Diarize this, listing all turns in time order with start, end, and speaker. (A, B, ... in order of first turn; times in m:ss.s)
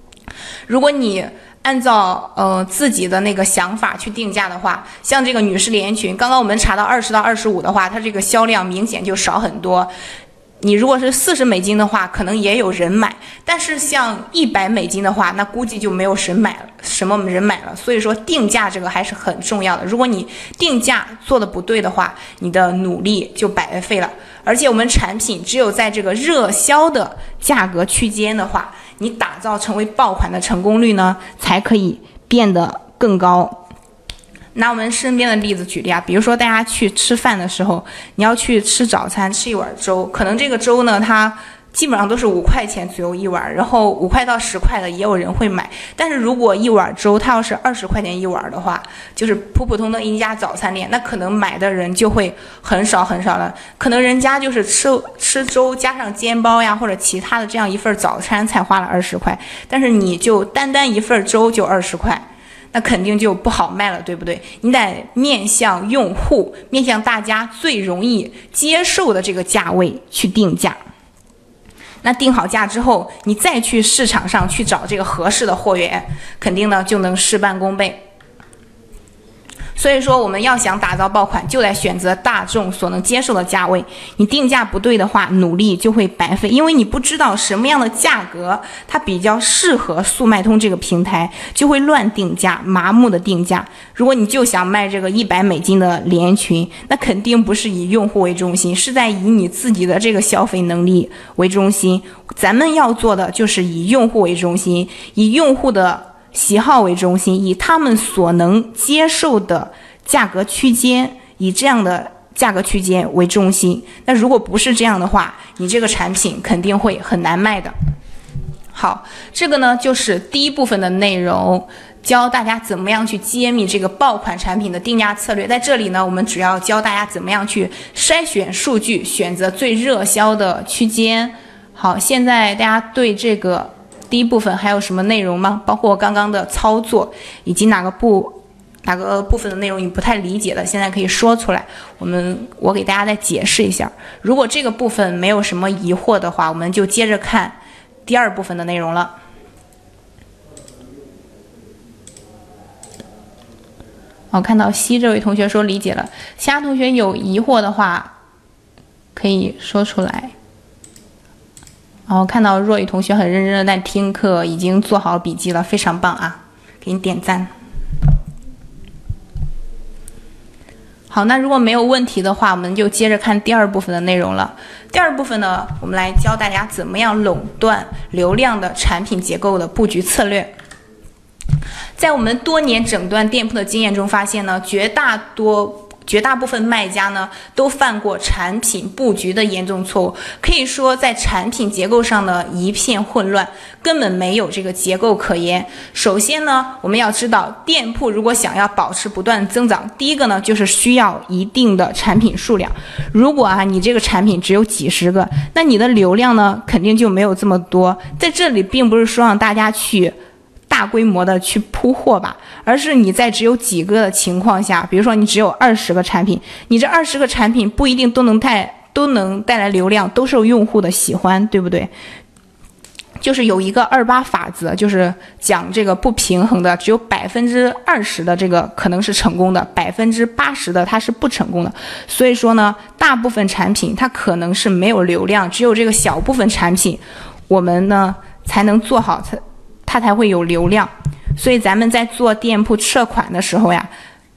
0:00.7-0:09.9 A
0:10.6-0:33.6 A
0:34.6-1:10.8 A
1:12.0-1:18.0 A
1:19.8-1:57.7 A
1:58.7-2:29.2 A
2:34.3-2:38.1 A
2:39.2-2:40.3 A
2:42.1-2:47.5 A
2:51.1-3:00.5 A
3:02.0-3:30.2 A
3:30.7-3:41.9 A
3:43.2-4:03.9 A